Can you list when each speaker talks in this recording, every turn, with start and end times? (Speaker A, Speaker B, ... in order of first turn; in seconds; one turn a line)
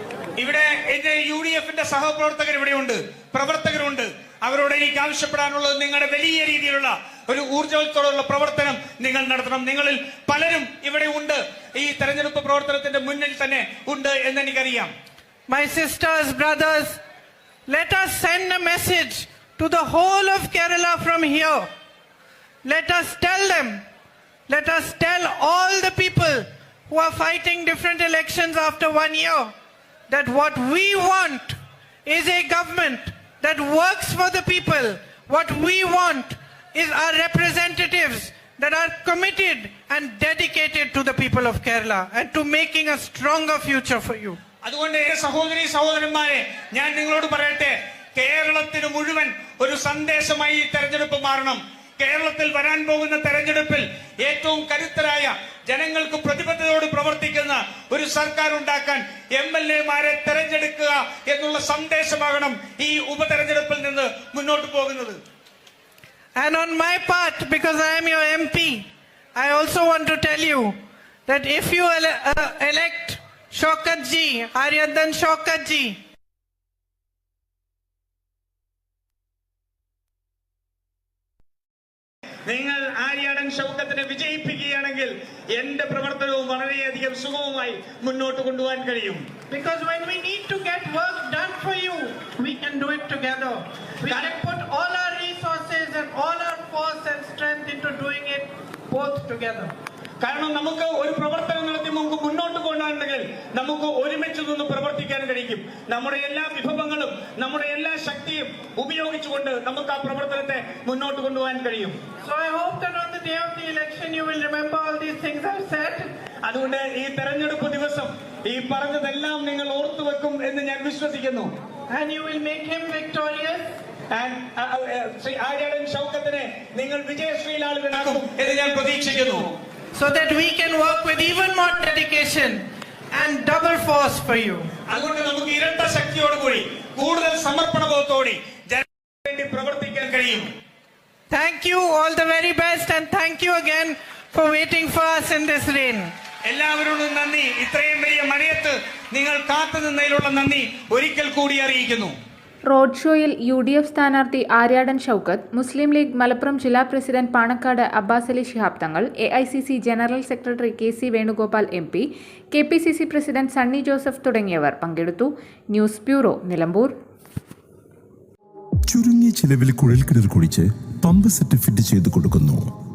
Speaker A: 0.4-14.9
Speaker B: 15.5-17.0
Speaker B: 17.7-21.7
Speaker B: 22.6-23.8
Speaker B: 24.5-29.5
Speaker B: 30.1-44.4
Speaker A: 44.6-65.2
Speaker B: 66.4-70.8
Speaker B: 71.3-76.0
Speaker A: 82.5-89.2
Speaker B: 89.5-99.7
Speaker A: 94.1-94.3
Speaker A: 100.2-112.0
Speaker B: 112.2-116.1
Speaker A: 116.5-121.5
Speaker B: 121.9-123.7
Speaker A: 124.1-129.5
Speaker B: 129.9-134.7
Speaker A: 134.9-140.5
Speaker B: 141.3-146.1
Speaker A: 146.5-152.1
Speaker C: 152.7-166.9
Speaker D: 168.9-172.6